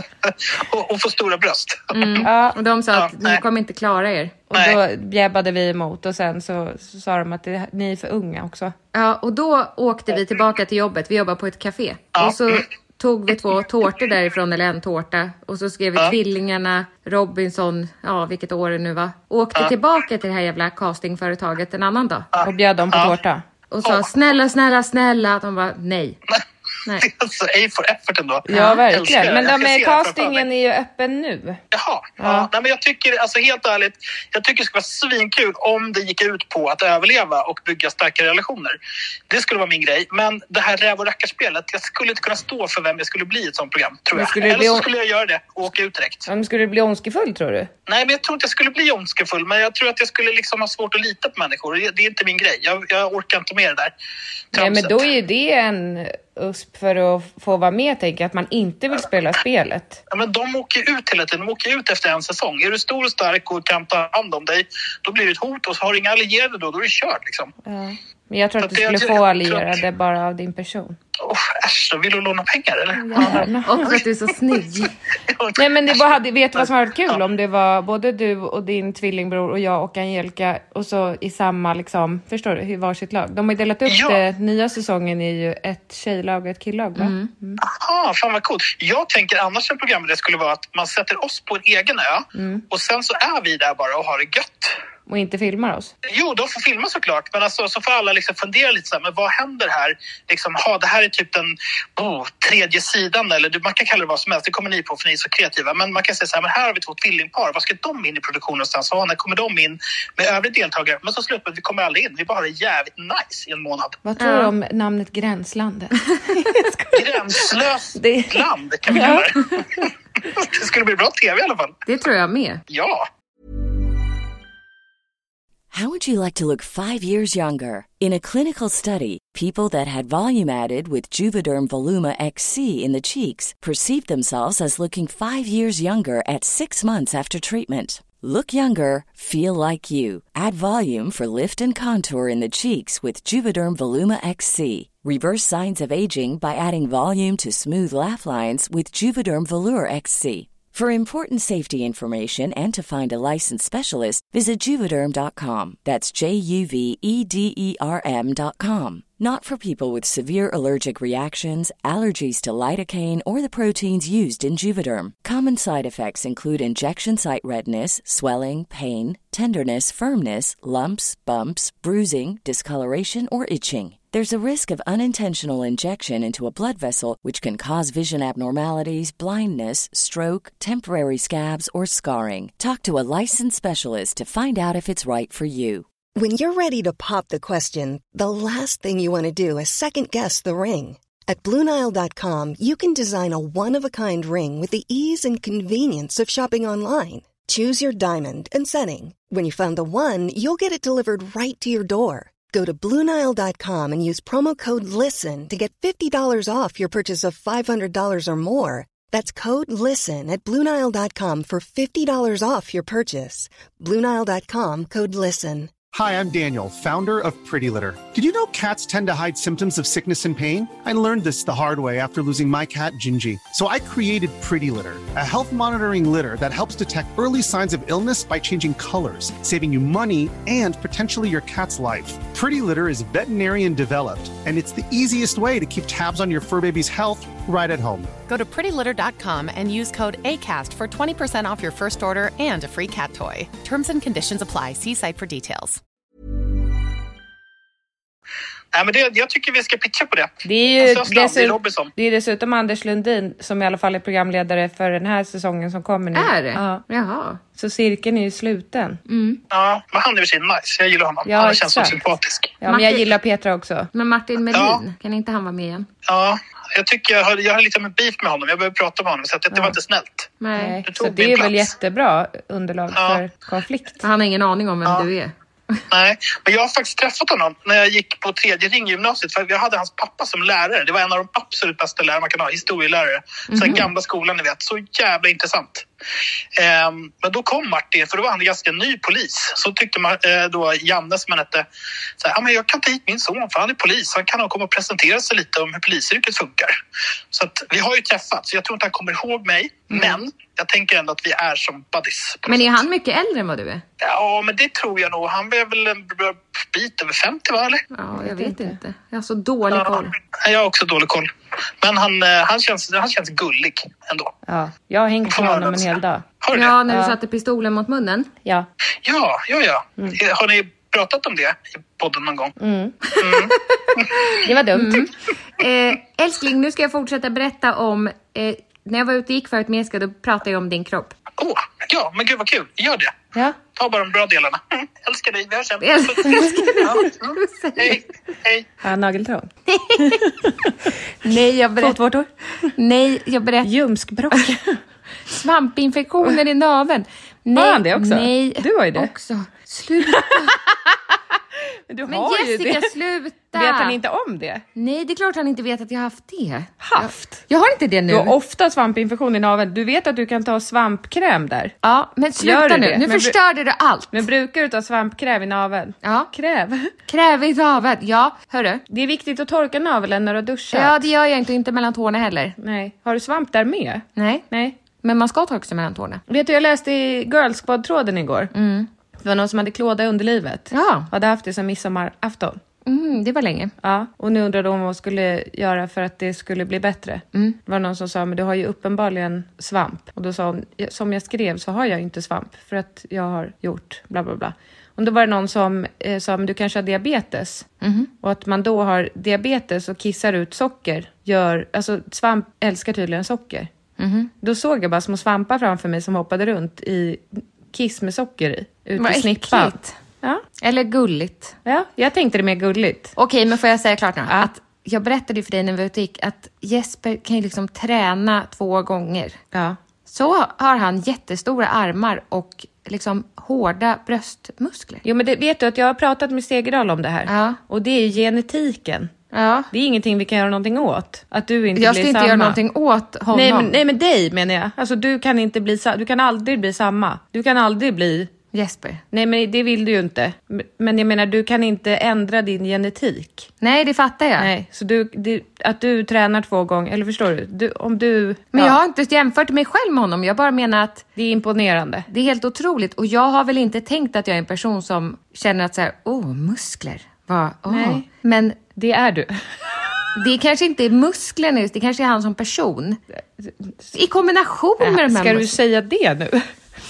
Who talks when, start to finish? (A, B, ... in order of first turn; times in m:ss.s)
0:00.2-0:02.2 A
0:01.9-0:04.4 B
0:02.2-0:02.6 C
0:02.9-0:03.4 A
0:04.5-0:08.7 C
0:08.9-0:22.3 B
0:12.1-0:12.6 A
0:22.3-0:23.2 A
0:22.4-0:23.4 C
0:23.7-0:26.2 B
0:23.8-0:24.1 A
0:27.0-0:30.4 A
0:28.5-0:31.6 C
0:28.5-0:28.8 B
0:31.7-0:38.8 A
0:32.2-0:32.5 C
0:39.3-0:46.3 A
0:44.1-0:44.9 C
0:46.3-0:47.7 C
0:47.9-0:53.9 A
0:54.5-0:55.1 A
0:54.5-1:00.0 C
1:00.1-1:07.5 A
1:07.6-1:11.0 C
1:08.6-1:09.8 A
1:11.2-1:14.0 A
1:12.9-1:13.9 C
1:13.2-1:14.9 B
1:15.3-1:17.2 A
1:15.6-1:27.6 C
1:23.8-1:24.2 A
1:27.0-1:27.3 B
1:27.6-1:34.8 A
1:32.3-1:32.6 C
1:35.1-1:35.9 C
1:36.0-1:54.0 A
1:54.0-1:57.4 C
1:54.2-1:54.5 B
1:56.9-2:01.7 A
1:58.0-1:59.6 C
2:01.8-2:02.6 B
2:02.7-2:03.1 A
2:05.7-3:05.8 D
3:06.1-3:35.7 E
3:35.9-3:58.2 F
3:58.3-4:05.8 G
4:08.7-4:11.9 A
4:10.4-4:16.8 C
4:16.1-4:17.4 B
4:17.5-4:19.0 C
4:19.1-4:19.4 B
4:19.5-4:22.6 A
4:21.2-4:22.0 C
4:22.6-4:23.9 C
4:22.6-4:23.0 B
4:23.9-4:25.9 B
4:24.5-4:24.8 A
4:26.0-4:30.3 A
4:30.4-4:30.8 B
4:30.6-4:34.0 C
4:30.8-4:31.7 A
4:32.9-4:33.2 A
4:34.0-4:35.8 B
4:35.9-4:45.9 A
4:43.5-4:43.9 B
4:46.5-4:51.7 A
4:52.2-4:56.8 A
4:57.3-5:02.8 A
4:59.9-5:00.2 B
5:02.5-5:03.8 B
5:04.0-5:07.8 A
5:07.9-5:10.1 B
5:08.2-5:08.8 C
5:09.7-5:11.3 A
5:11.8-5:14.3 A
5:14.4-5:16.2 C
5:15.2-5:16.8 A
5:16.5-5:18.3 B
5:16.9-5:17.2 C
5:19.0-5:22.5 A
5:22.6-5:23.0 C
5:23.2-5:24.1 A
5:23.4-5:31.1 B
5:24.4-5:25.1 C
5:31.4-5:33.2 A
5:33.7-5:38.7 A
5:35.8-5:38.0 B
5:36.5-5:36.7 C
5:38.8-5:39.5 C
5:39.7-5:40.2 B
5:40.0-5:40.7 C
5:41.2-5:42.0 B
5:41.8-5:42.7 C
5:42.7-5:43.7 B
5:43.6-5:44.8 C
5:45.3-5:50.6 B
5:47.5-5:49.1 C
5:50.1-5:51.0 C
5:51.9-5:52.9 C
5:52.0-5:54.0 B
5:53.5-5:54.6 C
5:54.7-5:58.3 B
5:56.8-5:57.4 C
5:58.1-6:01.8 C
6:01.8-6:04.2 B
6:02.4-6:03.4 C
6:04.1-6:06.9 C
6:06.0-6:06.3 B
6:07.1-6:08.8 B
6:08.9-6:11.0 C
6:10.7-6:12.5 B
6:12.6-6:14.8 C
6:14.2-6:14.4 B
6:15.0-6:16.2 B
6:16.3-6:18.5 C
6:18.5-6:18.9 B
6:19.2-6:22.6 C
6:20.7-6:21.1 B
6:22.8-6:23.7 B
6:23.8-6:37.7 C
6:37.8-6:38.1 B
6:38.2-6:43.7 C
6:44.0-6:44.3 B
6:44.4-6:50.4 C
6:49.0-6:50.0 B
6:50.6-6:51.6 B
6:51.6-6:53.1 C
6:53.2-6:59.4 B
7:00.1-7:05.0 B
7:05.0-7:09.1 C
7:07.3-7:07.6 B
7:09.3-7:09.7 B
7:09.7-7:12.6 C
7:11.8-7:13.8 B
7:13.3-7:18.3 C
7:18.5-7:19.0 B
7:19.1-7:23.5 C
7:23.6-7:24.5 B
7:24.4-7:28.8 C
7:28.5-7:31.0 B
7:31.2-7:32.1 C
7:32.1-7:38.6 B
7:37.7-7:38.0 C
7:38.7-7:39.3 C
7:40.2-7:43.0 B
7:43.4-7:43.9 C
7:43.9-7:45.5 B
7:44.8-7:46.5 C